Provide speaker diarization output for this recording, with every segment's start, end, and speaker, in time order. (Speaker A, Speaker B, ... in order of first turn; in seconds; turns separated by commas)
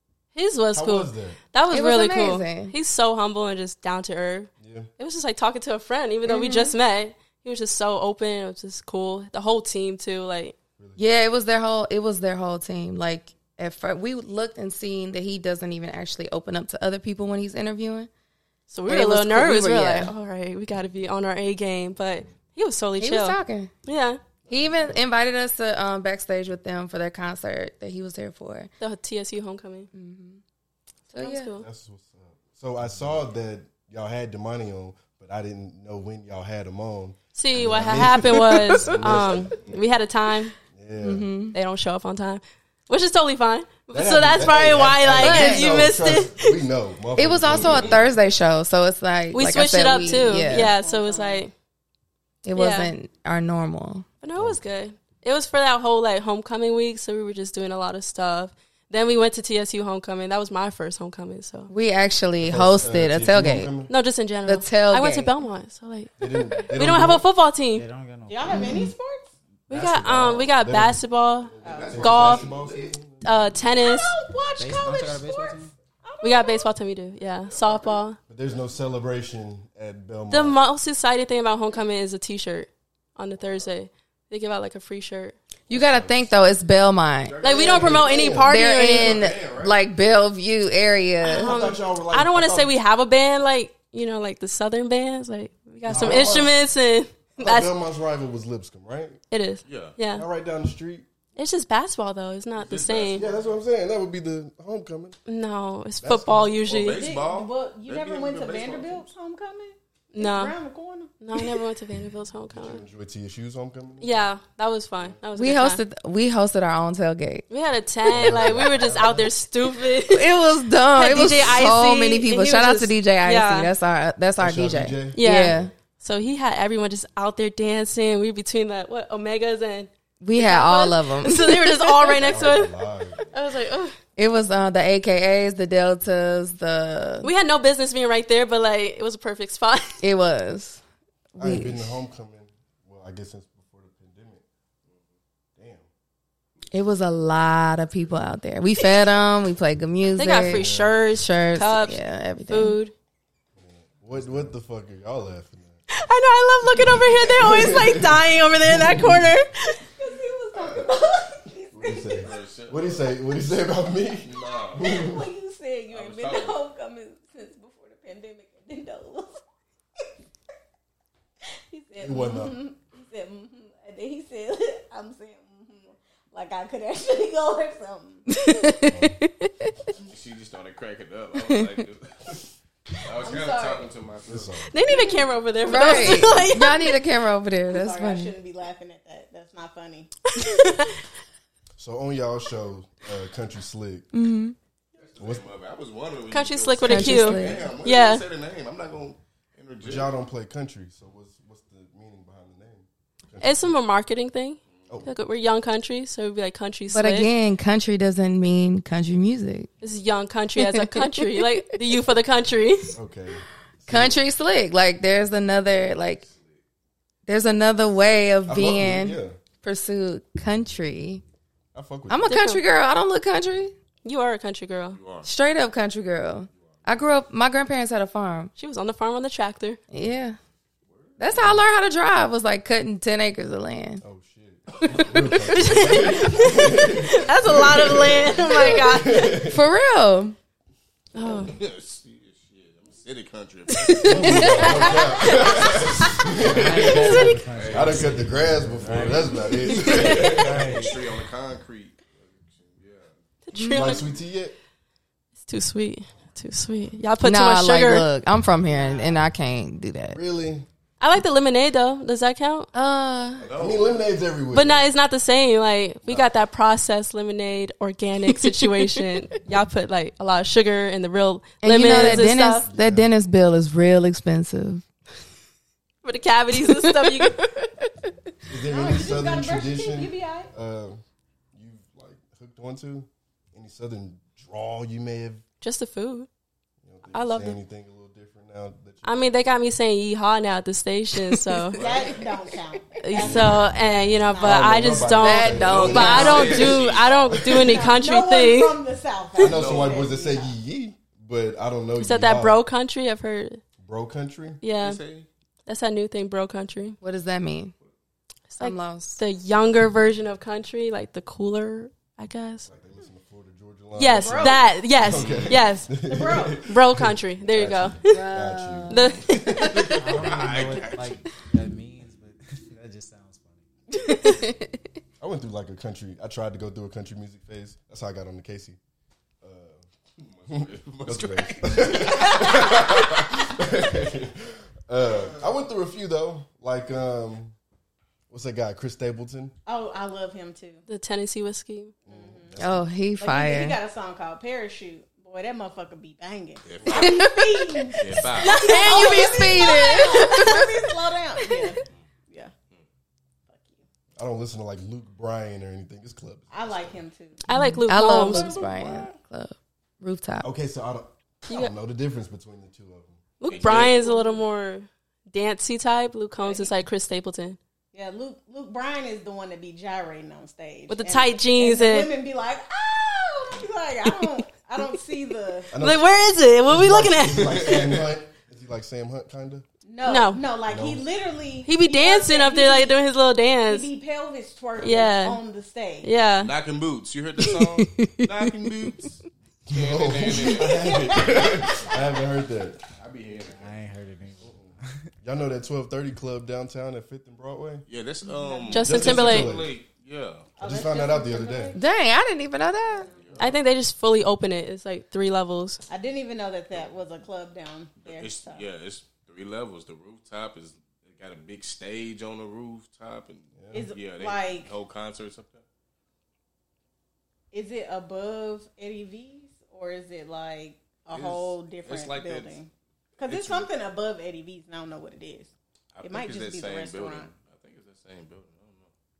Speaker A: 0.3-10.5, Speaker B: 0.7-1.4, Speaker C: 1.7-2.7, Speaker B: 4.6-4.9, Speaker C: 6.2-6.7, Speaker B: 10.8-11.0, Speaker C: 11.0-18.1, Speaker A: 18.7-24.2, Speaker C: 18.9-20.1, Speaker C: 23.0-23.7, Speaker B: 24.5-24.9, Speaker C: 24.5-28.7, Speaker A: 28.8-29.9, Speaker C: 29.9-30.4, Speaker C: 31.1-31.5, Speaker A: 31.1-31.6, Speaker B: 31.6-39.8, Speaker A: 37.4-40.5, Speaker B: 40.7-41.3, Speaker C: 41.0-41.5, Speaker A: 41.5-46.5, Speaker B: 43.9-48.1, Speaker C: 45.2-45.7, Speaker C: 47.1-50.7, Speaker D: 47.5-48.0, Speaker A: 49.3-51.5, Speaker E: 50.0-51.5, Speaker C: 52.4-54.1, Speaker A: 52.5-52.9, Speaker A: 54.2-61.7, Speaker B: 54.3-54.6, Speaker C: 61.7-63.7, Speaker B: 62.4-63.9, Speaker A: 63.9-67.8, Speaker C: 64.5-65.3, Speaker B: 66.2-67.2, Speaker F: 67.7-68.9, Speaker E: 68.3-69.3, Speaker C: 68.5-68.9, Speaker A: 69.7-72.4, Speaker F: 69.7-70.4, Speaker B: 70.0-73.2, Speaker E: 71.6-72.1, Speaker D: 71.6-72.9, Speaker A: 73.2-74.1, Speaker E: 73.8-76.7, Speaker F: 74.6-75.7, Speaker A: 76.2-78.2, Speaker D: 77.4-77.9, Speaker B: 78.3-80.6, Speaker A: 80.3-85.4, Speaker C: 85.7-87.7, Speaker B: 85.7-86.2, Speaker D: 87.2-89.8, Speaker A: 87.4-89.3, Speaker B: 87.5-88.5, Speaker C: 88.3-91.6, Speaker A: 91.2-97.7, Speaker B: 91.3-92.7, Speaker B: 95.9-96.6, Speaker B: 97.4-99.2, Speaker A: 99.3-100.2, Speaker D: 99.7-99.9, Speaker B: 100.1-101.1, Speaker A: 101.3-103.2, Speaker D: 102.6-103.5, Speaker B: 103.1-105.2, Speaker A: 105.2-107.0, Speaker B: 106.0-106.6, Speaker D: 106.7-109.1, Speaker E: 106.7-111.5, Speaker A: 110.1-110.5, Speaker A: 111.2-112.8, Speaker B: 112.5-114.3, Speaker A: 114.0-115.8, Speaker C: 115.3-117.5, Speaker A: 117.5-120.3, Speaker B: 118.1-119.3, Speaker F: 118.4-119.2, Speaker C: 120.0-125.7, Speaker A: 120.9-123.7, Speaker B: 124.4-125.7, Speaker A: 125.1-133.9, Speaker C: 130.2-132.3, Speaker B: 132.2-133.3, Speaker C: 134.2-137.3, Speaker A: 137.2-139.9, Speaker C: 140.0-140.8, Speaker C: 141.3-141.9, Speaker B: 141.4-144.4, Speaker B: 145.6-145.9, Speaker C: 146.7-152.8, Speaker A: 150.2-152.9, Speaker B: 150.5-151.0, Speaker B: 153.6-155.8, Speaker A: 155.9-159.7, Speaker B: 156.8-159.3, Speaker E: 159.9-162.3, Speaker D: 160.6-160.8, Speaker B: 161.7-165.2, Speaker D: 162.2-163.4, Speaker D: 164.2-165.0, Speaker E: 164.7-169.4, Speaker D: 165.9-166.6, Speaker E: 171.7-178.3, Speaker B: 172.0-172.6, Speaker C: 178.3-179.7, Speaker B: 178.9-179.2, Speaker D: 180.1-182.5, Speaker D: 183.0-184.6, Speaker E: 183.2-183.9, Speaker B: 184.2-184.7, Speaker A: 184.7-187.0, Speaker C: 185.6-188.3, Speaker E: 187.7-190.1, Speaker A: 190.3-190.9, Speaker B: 191.8-194.1, Speaker C: 194.1-194.5, Speaker D: 194.9-200.1, Speaker B: 195.2-195.5, Speaker A: 196.3-198.2, Speaker C: 196.8-197.7, Speaker B: 199.8-203.8, Speaker A: 203.4-207.3, Speaker C: 206.9-209.7, Speaker A: 209.8-212.9, Speaker C: 210.6-211.7, Speaker B: 212.9-214.2, Speaker C: 213.9-216.2, Speaker D: 216.2-216.6, Speaker C: 217.3-221.2, Speaker B: 218.5-219.4, Speaker B: 221.7-222.3, Speaker C: 222.1-223.7, Speaker A: 222.3-222.6, Speaker A: 224.0-225.0, Speaker D: 224.9-225.3, Speaker C: 225.2-228.5, Speaker A: 228.6-229.8, Speaker C: 229.9-230.4, Speaker D: 230.9-231.5, Speaker C: 231.2-234.0, Speaker B: 234.0-239.6, Speaker A: 235.5-239.3, Speaker C: 239.3-240.3, Speaker A: 241.1-241.5, Speaker D: 241.4-246.8, Speaker C: 243.9-245.3, Speaker B: 244.0-250.8, Speaker F: 244.1-245.1, Speaker A: 244.9-245.7, Speaker F: 246.3-251.0, Speaker A: 246.8-247.4, Speaker D: 247.5-253.1, Speaker A: 249.7-250.3, Speaker A: 253.4-254.0, Speaker C: 253.6-253.9, Speaker B: 253.7-254.6, Speaker A: 255.4-258.1, Speaker C: 257.2-260.2, Speaker E: 258.7-259.2, Speaker B: 260.1-260.7, Speaker A: 261.0-262.7, Speaker C: 262.7-263.5, Speaker D: 263.4-264.1, Speaker B: 263.5-264.9, Speaker A: 264.5-272.7, Speaker B: 266.0-266.3, Speaker C: 271.6-274.8, Speaker B: 271.9-273.1, Speaker A: 276.0-277.6, Speaker C: 276.6-277.5, Speaker B: 278.5-281.0, Speaker E: 278.7-280.5, Speaker B: 281.5-285.4, Speaker A: 285.6-286.3, Speaker B: 286.8-289.4, Speaker A: 287.1-287.6, Speaker A: 289.0-291.8, Speaker E: 291.7-295.1, Speaker D: 291.7-292.3, Speaker A: 293.0-298.8, Speaker B: 293.2-293.8, Speaker B: 294.4-297.8, Speaker C: 295.2-296.6, Speaker D: 295.7-297.5, Speaker E: 296.0-296.6, Speaker E: 297.5-300.6, Speaker B: 299.4-302.6, Speaker D: 299.4-300.1, Speaker A: 302.0-303.6, Speaker B: 303.8-304.6, Speaker A: 304.6-305.0, Speaker D: 304.8-305.3, Speaker A: 305.7-307.0, Speaker C: 307.0-307.7, Speaker A: 308.5-312.7, Speaker C: 308.6-309.2, Speaker B: 312.6-319.8, Speaker A: 313.9-315.9, Speaker E: 314.2-314.7, Speaker D: 315.0-315.6, Speaker E: 316.0-316.6, Speaker A: 316.6-318.2, Speaker C: 318.1-319.2, Speaker A: 318.9-319.9, Speaker D: 319.7-321.2, Speaker F: 319.9-323.6, Speaker C: 324.1-324.7, Speaker B: 325.2-328.8, Speaker B: 329.4-329.9, Speaker D: 330.2-333.2, Speaker B: 330.5-337.5, Speaker B: 338.3-339.5, Speaker E: 339.6-340.8, Speaker A: 340.9-341.9, Speaker B: 342.1-342.8, Speaker E: 342.1-342.6, Speaker C: 342.6-343.8, Speaker E: 343.2-352.5, Speaker D: 346.6-347.2, Speaker C: 346.9-347.9, Speaker D: 348.0-348.6, Speaker A: 348.4-350.6, Speaker C: 348.5-350.7, Speaker C: 351.5-351.8, Speaker E: 353.5-353.8, Speaker B: 354.2-356.9, Speaker E: 356.5-357.4, Speaker A: 357.4-358.6, Speaker C: 357.5-360.5, Speaker E: 358.3-359.1, Speaker B: 360.4-363.2, Speaker A: 363.4-367.6, Speaker D: 363.5-364.0, Speaker E: 363.6-364.4, Speaker E: 366.4-366.7, Speaker E: 367.9-375.7, Speaker A: 370.9-372.1, Speaker B: 375.7-379.6, Speaker A: 375.8-377.8, Speaker D: 377.4-378.0, Speaker E: 379.8-383.0, Speaker A: 380.0-380.4, Speaker B: 380.7-381.0, Speaker A: 381.6-383.9, Speaker E: 383.6-386.1, Speaker A: 384.8-385.4, Speaker A: 386.0-386.5, Speaker D: 386.4-391.9, Speaker C: 387.8-388.3, Speaker B: 389.7-392.8, Speaker E: 390.6-391.7, Speaker D: 392.9-393.8, Speaker F: 393.3-395.1, Speaker B: 395.2-397.9, Speaker D: 397.9-400.5, Speaker E: 398.2-399.2, Speaker A: 398.7-399.5, Speaker B: 398.8-399.7, Speaker E: 400.6-401.9, Speaker B: 400.6-401.8, Speaker C: 401.7-403.1, Speaker E: 402.9-403.5, Speaker D: 403.1-403.6, Speaker A: 403.4-405.8, Speaker E: 405.9-408.6, Speaker D: 408.0-415.6, Speaker B: 413.5-413.9, Speaker E: 413.7-414.7, Speaker E: 417.5-425.5, Speaker D: 421.1-422.6, Speaker D: 423.2-423.7, Speaker D: 425.9-428.9, Speaker E: 426.0-427.3